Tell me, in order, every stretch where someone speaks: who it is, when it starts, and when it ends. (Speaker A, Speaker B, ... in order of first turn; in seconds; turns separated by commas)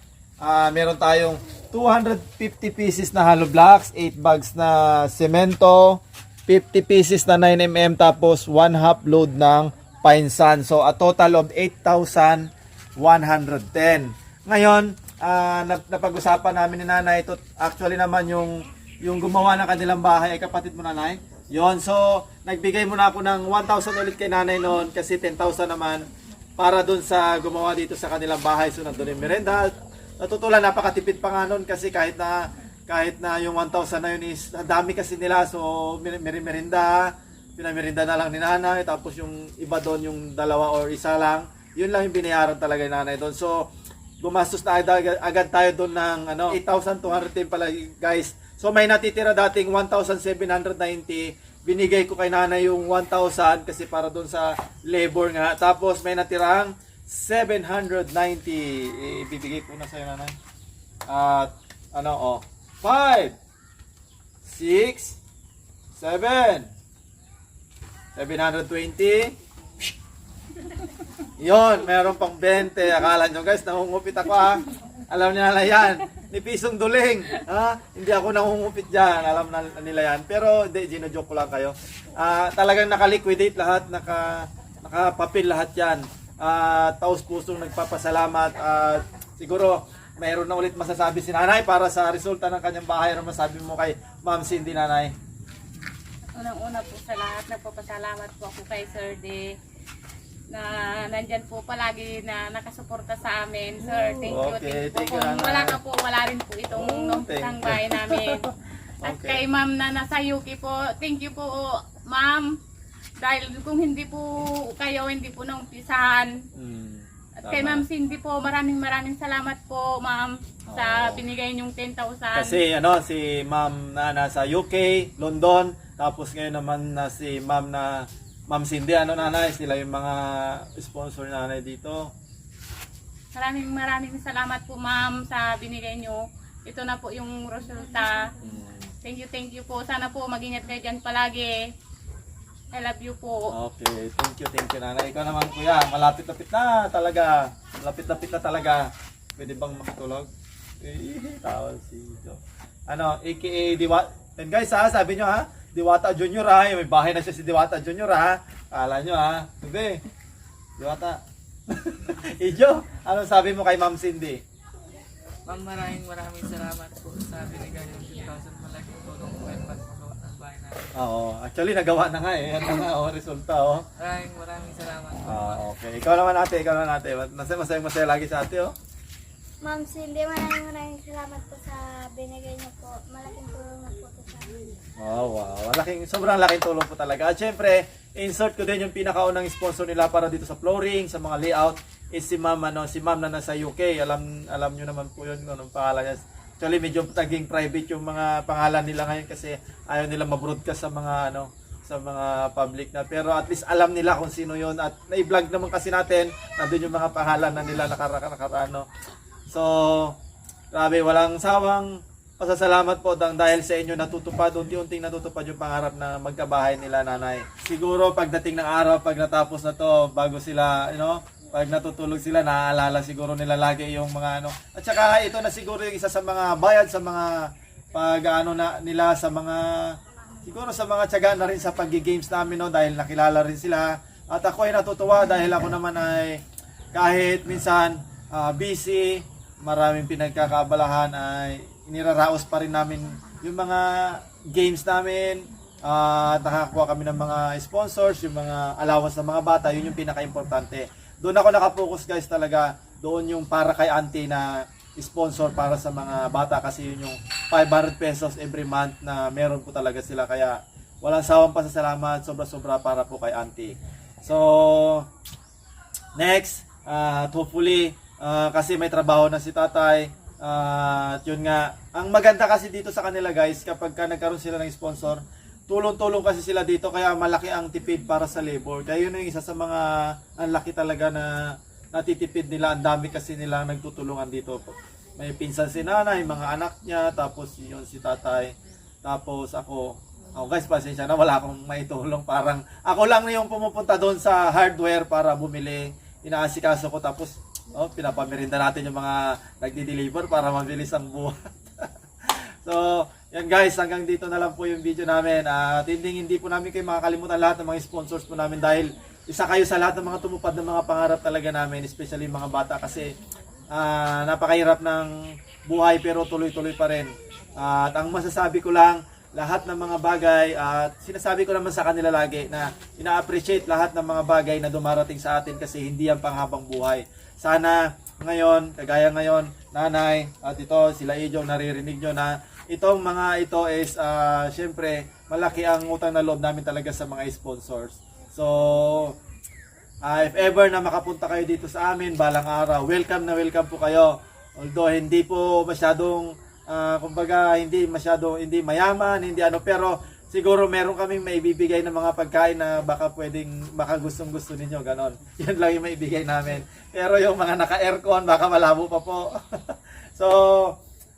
Speaker A: 0.4-26.0, Speaker A: 26.6-43.7, Speaker A: 44.2-60.3, Speaker A: 61.1-63.4, Speaker A: 64.4-65.2, Speaker A: 66.0-66.7, Speaker A: 68.1-69.3, Speaker A: 71.4-95.1, Speaker B: 96.3-99.5, Speaker B: 100.5-108.5, Speaker A: 104.2-105.8, Speaker A: 106.7-108.5, Speaker B: 109.0-112.5, Speaker A: 109.0-109.4, Speaker B: 113.2-116.3, Speaker A: 116.5-117.8, Speaker B: 117.4-122.6, Speaker A: 120.7-121.2, Speaker A: 122.3-132.1, Speaker B: 133.3-138.3, Speaker A: 138.4-138.9, Speaker B: 139.0-141.6, Speaker B: 142.7-143.5, Speaker A: 143.5-150.3, Speaker A: 150.8-160.0, Speaker A: 160.8-164.4, Speaker C: 165.5-171.0, Speaker A: 170.9-173.8, Speaker C: 174.0-175.6, Speaker A: 175.2-178.7, Speaker D: 179.6-184.8, Speaker A: 185.0-208.9, Speaker A: 209.5-210.2, Speaker A: 210.7-236.4, Speaker A: 236.9-265.1, Speaker A: 266.1-281.4, Speaker A: 281.9-288.5, Speaker A: 289.0-313.1, Speaker A: 313.7-315.1, Speaker A: 315.6-339.1, Speaker A: 340.0-360.8